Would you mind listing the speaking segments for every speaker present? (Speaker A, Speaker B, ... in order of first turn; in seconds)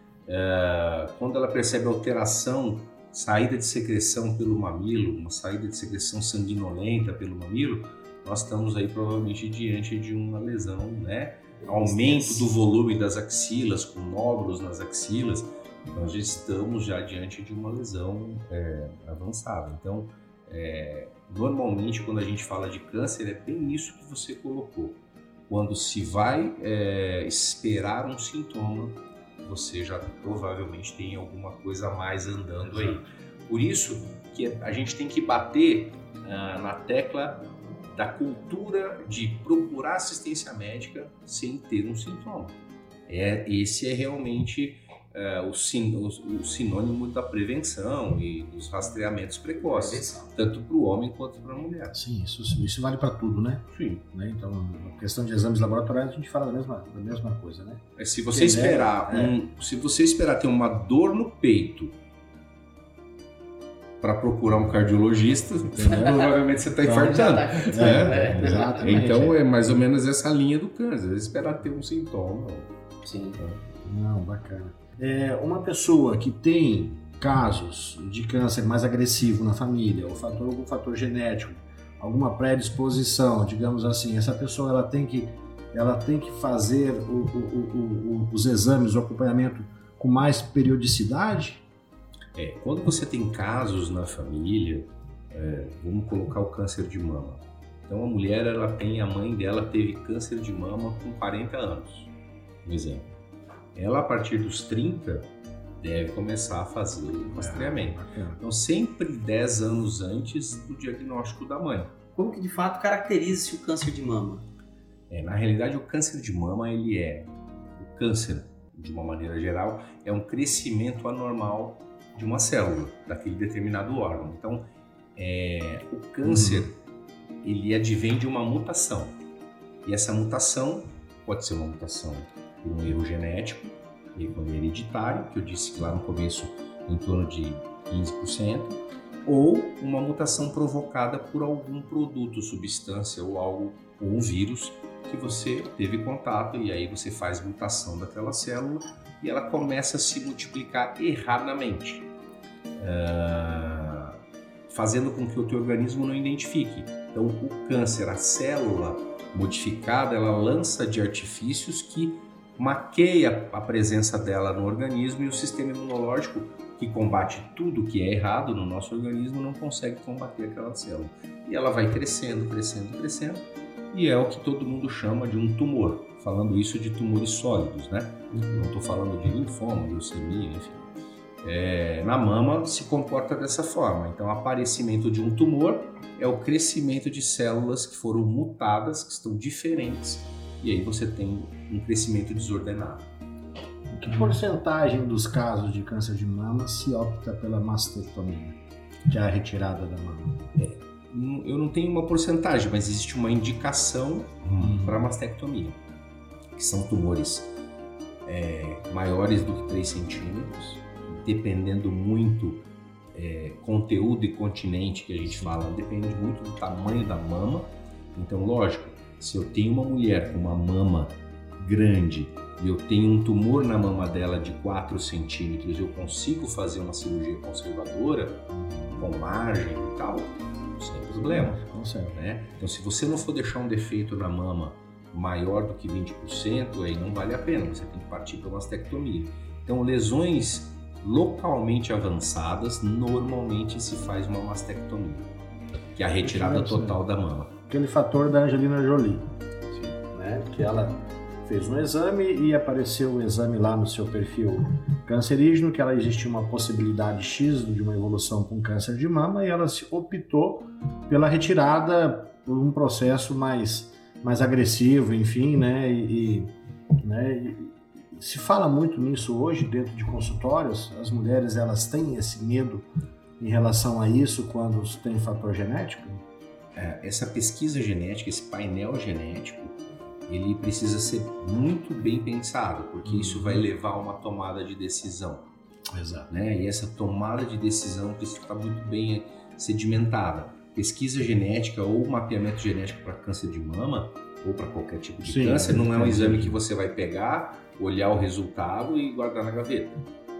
Speaker A: 0.3-37.4, 37.9-52.0, 53.7-54.0, 58.0-61.9, 64.0-72.7, 92.3-102.1, 102.6-103.1, 103.7-105.3, 105.8-111.9, 115.1-126.8, 127.4-129.2, 129.8-152.1, 152.8-180.9, 181.4-193.1, 200.5-205.8, 206.6-207.5, 208.2-245.3, 245.9-247.5, 276.8-285.4, 286.3-300.0
Speaker B: 11.6-12.6, 49.6-50.3, 66.0-66.3, 66.9-69.0, 73.0-73.4, 112.1-114.5
Speaker C: 32.7-33.1, 51.9-59.3, 65.7-66.1, 66.8-69.4, 73.8-91.6, 107.3-108.4, 126.2-126.7, 193.9-198.6, 199.1-200.4, 204.6-205.0, 228.5-229.1, 231.1-232.2, 246.2-247.0, 247.7-272.9, 273.4-276.2, 283.0-283.6, 285.9-286.3, 295.2-296.6